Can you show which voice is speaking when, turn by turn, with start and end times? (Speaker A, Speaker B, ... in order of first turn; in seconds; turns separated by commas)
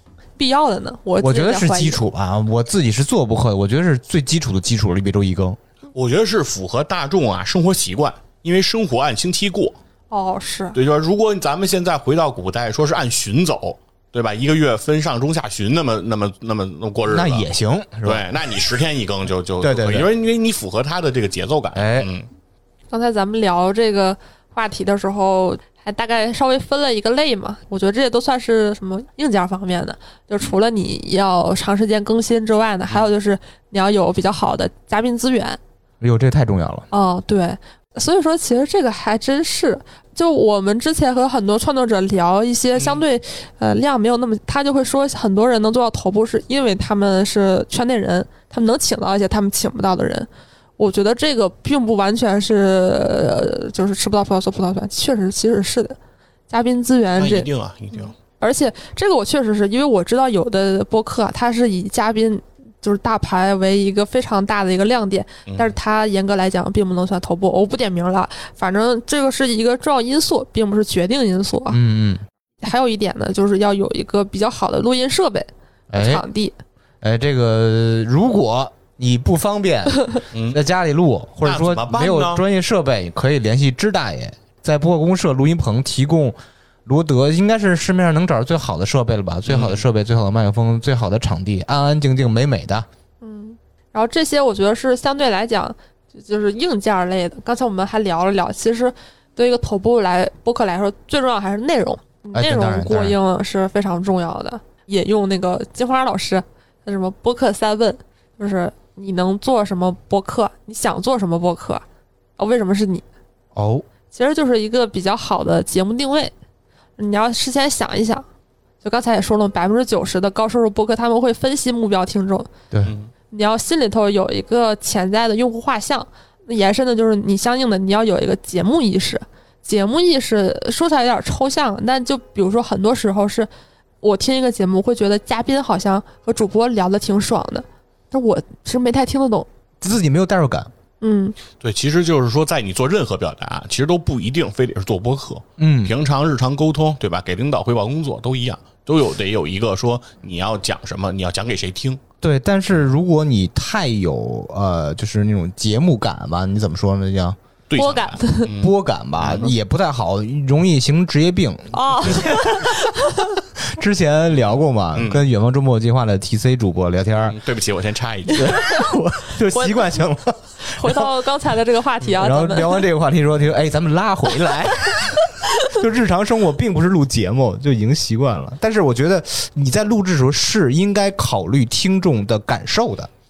Speaker A: 0.4-2.0, Speaker B: 1.2-5.6, Speaker C: 5.9-9.8, Speaker A: 10.1-10.8, Speaker C: 10.7-17.5, Speaker B: 17.1-18.2, Speaker C: 18.0-22.3, Speaker B: 19.6-20.1, Speaker B: 21.7-22.1, Speaker A: 22.9-35.6, Speaker B: 36.0-36.9, Speaker A: 36.9-56.0, Speaker A: 56.5-57.5, Speaker C: 57.1-58.1, Speaker A: 58.4-71.8, Speaker C: 65.5-65.7, Speaker B: 71.7-72.2, Speaker A: 72.6-76.5, Speaker B: 75.9-76.2, Speaker B: 77.0-92.8, Speaker C: 80.3-80.6, Speaker C: 81.4-82.4, Speaker C: 89.5-89.8, Speaker A: 93.2-111.8, Speaker B: 102.3-103.2, Speaker A: 112.4-113.0, Speaker B: 113.5-113.8, Speaker A: 114.1-116.3, Speaker A: 117.0-118.2, Speaker A: 118.8-122.5, Speaker C: 122.8-123.1, Speaker A: 123.3-133.5, Speaker A: 134.0-139.5, Speaker B: 139.8-140.7, Speaker A: 141.0-141.3, Speaker C: 141.6-152.0, Speaker B: 145.6-145.9, Speaker B: 152.2-157.4, Speaker C: 157.7-159.5, Speaker A: 157.8-158.5, Speaker B: 158.5-162.7, Speaker A: 161.7-163.4, Speaker B: 163.6-167.4, Speaker C: 164.9-165.2, Speaker C: 167.2-168.6, Speaker B: 168.4-171.1, Speaker A: 168.4-168.7, Speaker A: 169.4-169.9, Speaker A: 170.6-172.8, Speaker B: 172.2-183.1, Speaker A: 175.2-175.8